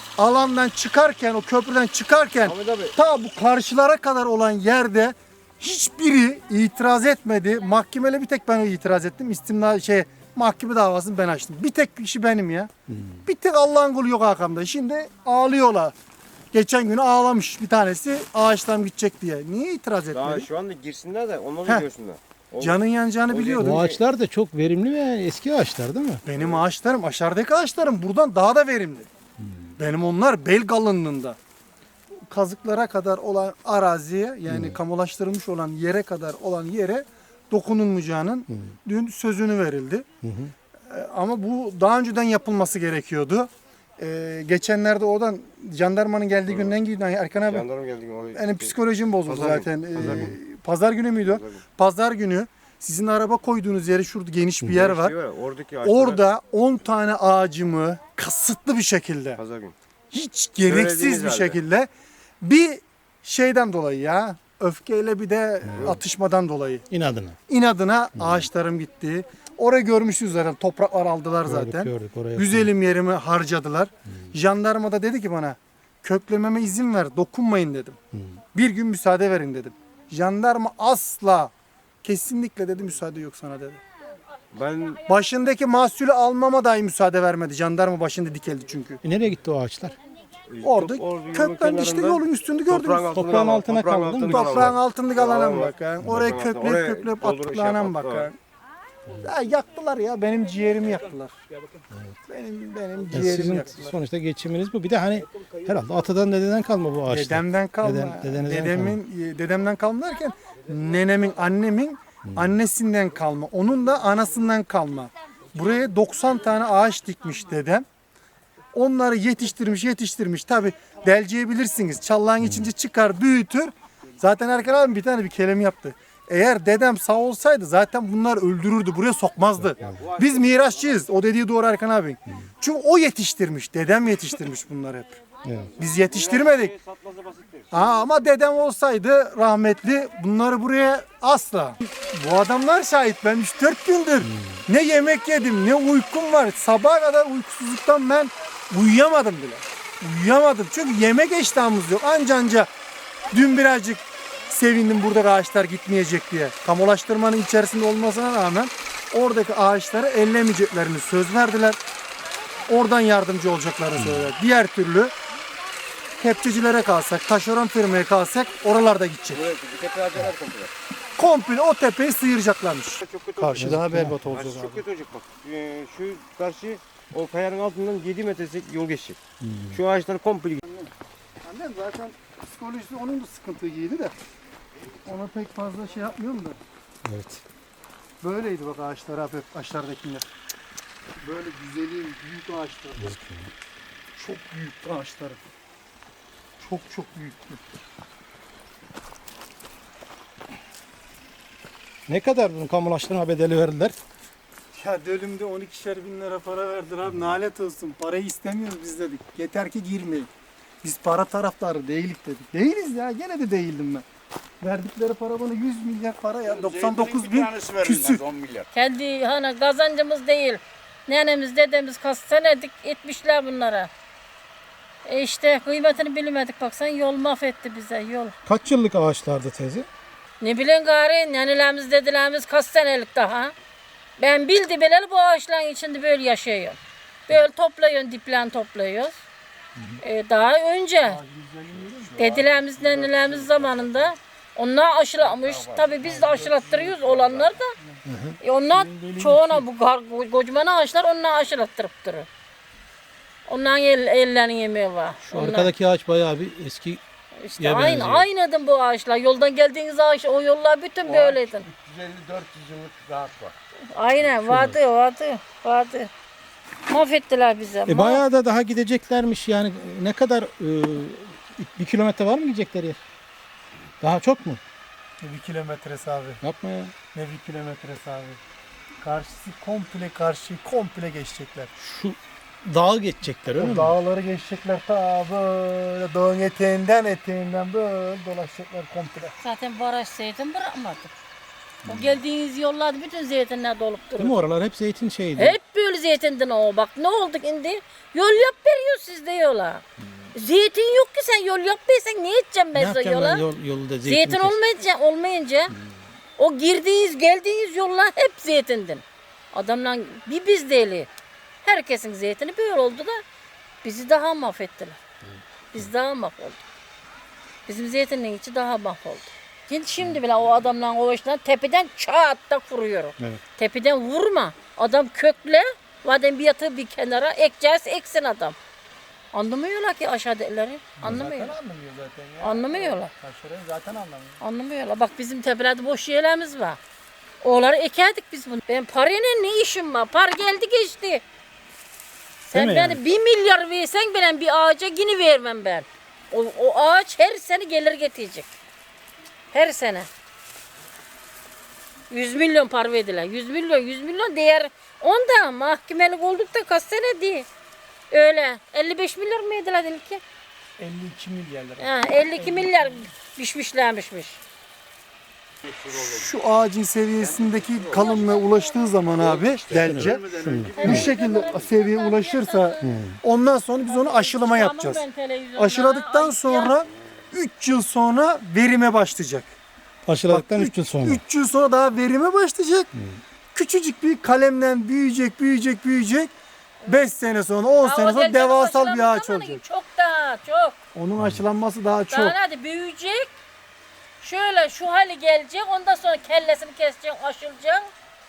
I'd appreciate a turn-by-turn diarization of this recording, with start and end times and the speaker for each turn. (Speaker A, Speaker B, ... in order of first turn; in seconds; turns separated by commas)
Speaker A: 0.2-12.7, Speaker B: 2.4-2.9, Speaker C: 12.9-13.2, Speaker A: 13.2-15.9, Speaker A: 16.5-20.5, Speaker B: 20.1-24.0, Speaker A: 22.6-23.9, Speaker C: 23.6-26.2, Speaker A: 26.2-29.1, Speaker C: 29.4-29.7, Speaker A: 29.8-31.4, Speaker A: 32.2-40.0, Speaker C: 34.5-34.8, Speaker C: 40.2-40.5, Speaker A: 40.9-47.7, Speaker B: 47.5-48.7, Speaker A: 48.3-55.1, Speaker B: 49.3-50.3, Speaker C: 50.0-50.3, Speaker B: 51.2-51.6, Speaker B: 54.7-56.2, Speaker A: 55.8-59.4, Speaker B: 59.4-59.7, Speaker A: 60.1-61.9, Speaker B: 60.6-61.6, Speaker A: 62.4-66.9, Speaker C: 65.7-65.9, Speaker C: 66.9-67.4, Speaker A: 67.5-78.0, Speaker C: 68.2-68.5, Speaker C: 71.5-72.7, Speaker C: 78.1-78.4, Speaker A: 78.5-83.8, Speaker B: 84.5-85.0, Speaker A: 85.0-89.0, Speaker C: 89.0-90.0, Speaker B: 90.5-98.3, Speaker A: 90.6-93.1, Speaker C: 93.1-94.7, Speaker A: 94.3-98.4, Speaker A: 99.2-101.3, Speaker A: 102.3-104.0, Speaker C: 103.1-109.0, Speaker A: 107.1-117.8, Speaker A: 118.7-135.2, Speaker B: 129.9-131.0, Speaker C: 135.4-135.7, Speaker A: 135.8-136.8, Speaker B: 136.0-137.8, Speaker A: 137.7-152.7, Speaker C: 144.2-144.6, Speaker A: 153.3-161.8, Speaker A: 162.7-165.1, Speaker C: 163.9-164.2, Speaker A: 166.2-169.5, Speaker B: 169.5-170.7, Speaker A: 171.2-174.8, Speaker B: 173.0-179.2, Speaker C: 173.4-174.2, Speaker C: 179.4-179.8, Speaker B: 179.7-180.6, Speaker A: 180.6-180.9, Speaker A: 181.4-184.1, Speaker A: 185.0-186.6, Speaker C: 187.0-187.4, Speaker A: 188.2-190.3, Speaker A: 191.2-193.2, Speaker C: 193.0-193.5, Speaker A: 194.1-195.4, Speaker A: 196.6-197.6, Speaker C: 202.1-203.9, Speaker A: 204.7-210.3, Speaker A: 210.8-214.0, Speaker A: 214.6-218.2, Speaker D: 216.5-218.7, Speaker E: 218.7-223.9, Speaker E: 225.0-228.3, Speaker C: 228.4-229.9, Speaker E: 230.4-233.5, Speaker E: 234.2-239.2, Speaker E: 240.0-241.2, Speaker A: 241.0-243.2, Speaker E: 242.2-247.7, Speaker A: 245.8-247.1, Speaker C: 248.1-248.4, Speaker E: 248.4-252.3, Speaker A: 248.7-249.6, Speaker E: 253.4-255.7, Speaker C: 255.2-257.0, Speaker E: 257.4-261.6, Speaker C: 257.6-258.2, Speaker D: 261.0-263.5, Speaker E: 263.9-266.1, Speaker C: 264.4-264.8, Speaker E: 266.9-268.2, Speaker C: 267.9-273.0, Speaker C: 274.0-274.6, Speaker A: 275.2-276.4, Speaker C: 276.4-276.9, Speaker A: 277.1-278.4, Speaker A: 279.0-281.7, Speaker C: 281.8-283.9, Speaker A: 283.6-289.3, Speaker E: 289.4-291.1, Speaker E: 291.8-294.4, Speaker C: 294.2-295.6, Speaker E: 295.4-303.4, Speaker C: 302.7-304.6, Speaker E: 304.1-305.7, Speaker E: 306.4-311.1, Speaker E: 311.6-313.2, Speaker E: 313.8-315.0, Speaker E: 315.7-316.6, Speaker E: 317.7-328.6, Speaker E: 329.3-331.5, Speaker A: 331.0-334.4, Speaker C: 331.0-331.3, Speaker E: 332.4-333.1, Speaker E: 334.4-336.8, Speaker E: 337.4-341.2, Speaker E: 342.5-348.5, Speaker C: 342.5-343.0, Speaker E: 349.5-350.1, Speaker E: 352.1-357.5, Speaker E: 358.1-360.2, Speaker A: 360.8-363.0, Speaker E: 361.8-364.4, Speaker D: 365.7-366.3, Speaker A: 365.9-370.2, Speaker D: 367.2-368.2, Speaker E: 367.9-369.1, Speaker D: 369.1-371.6, Speaker C: 369.7-371.0, Speaker E: 370.7-372.9, Speaker A: 370.8-375.0, Speaker C: 372.8-373.2, Speaker E: 373.9-376.8, Speaker A: 375.6-379.5, Speaker C: 380.1-381.2, Speaker A: 380.3-382.9, Speaker A: 383.5-386.3, Speaker A: 386.9-389.6, Speaker E: 387.8-390.8, Speaker A: 390.9-392.4, Speaker E: 392.1-393.3, Speaker E: 394.2-397.9